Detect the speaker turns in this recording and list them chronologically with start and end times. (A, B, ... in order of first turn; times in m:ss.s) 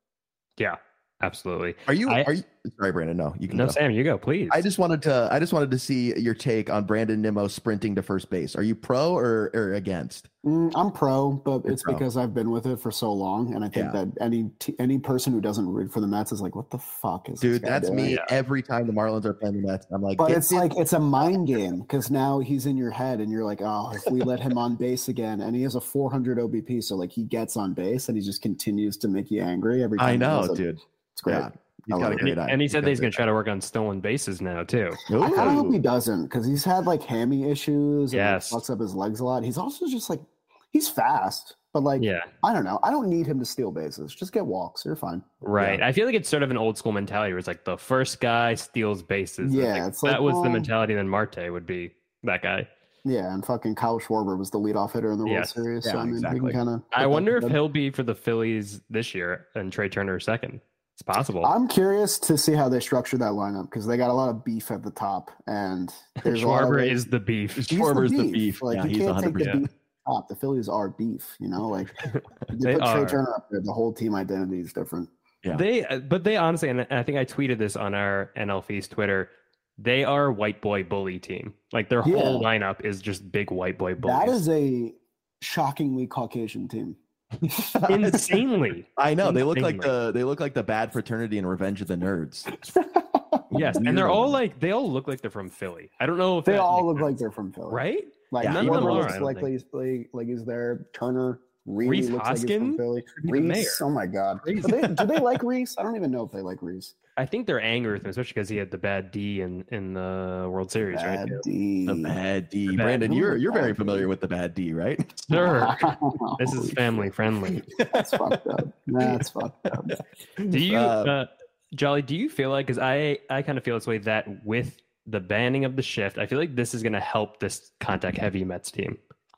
0:00.6-0:02.3 A
0:01.9-0:03.8 B
0:03.5-0:04.6 A
0:04.5-0:10.3 B
0:10.4-0:18.1 C
0:11.7-0:12.0 B
0:13.7-0:14.0 B
0:17.4-0:20.7 B
0:18.0-0:18.3 A
0:20.2-0:30.6 C
0:30.0-0:33.1 B
0:31.2-0:32.3 C
0:32.3-0:35.6 A
0:35.1-0:35.8 B
0:35.1-0:45.2 C
0:38.1-0:38.6 A
0:42.0-0:42.3 A
0:45.4-0:52.7 A
0:45.6-0:45.8 B
0:49.4-0:50.7 C
0:53.0-0:57.6 C
0:55.2-0:55.6 A
0:55.8-0:56.6 B
0:56.9-1:01.5 A
1:01.4-1:07.0 C
1:06.2-1:07.7 A
1:07.6-1:09.6 B
1:07.7-1:15.1 C
1:12.1-1:13.2 A
1:15.5-1:24.4 A
1:22.0-1:22.5 C
1:24.0-1:27.8 C
1:27.5-1:28.4 B
1:27.9-1:29.9 A
1:29.0-1:32.5 B
1:32.6-1:33.8 C
1:33.5-1:34.4 B
1:33.5-1:37.1 A
1:36.4-1:46.9 C
1:37.7-1:39.5 A
1:38.4-1:39.2 B
1:41.8-1:43.8 A
1:44.4-1:45.1 A
1:47.2-1:51.9 A
1:50.8-1:52.2 C
1:51.9-1:55.7 B
1:52.7-1:53.0 A
1:53.0-1:54.1 C
1:55.3-1:55.9 A
1:55.3-1:57.0 C
1:56.4-1:57.6 A
1:57.5-1:58.3 B
1:57.8-2:00.0 C
1:59.0-1:59.3 B
1:59.9-2:01.1 B
2:00.5-2:09.0 A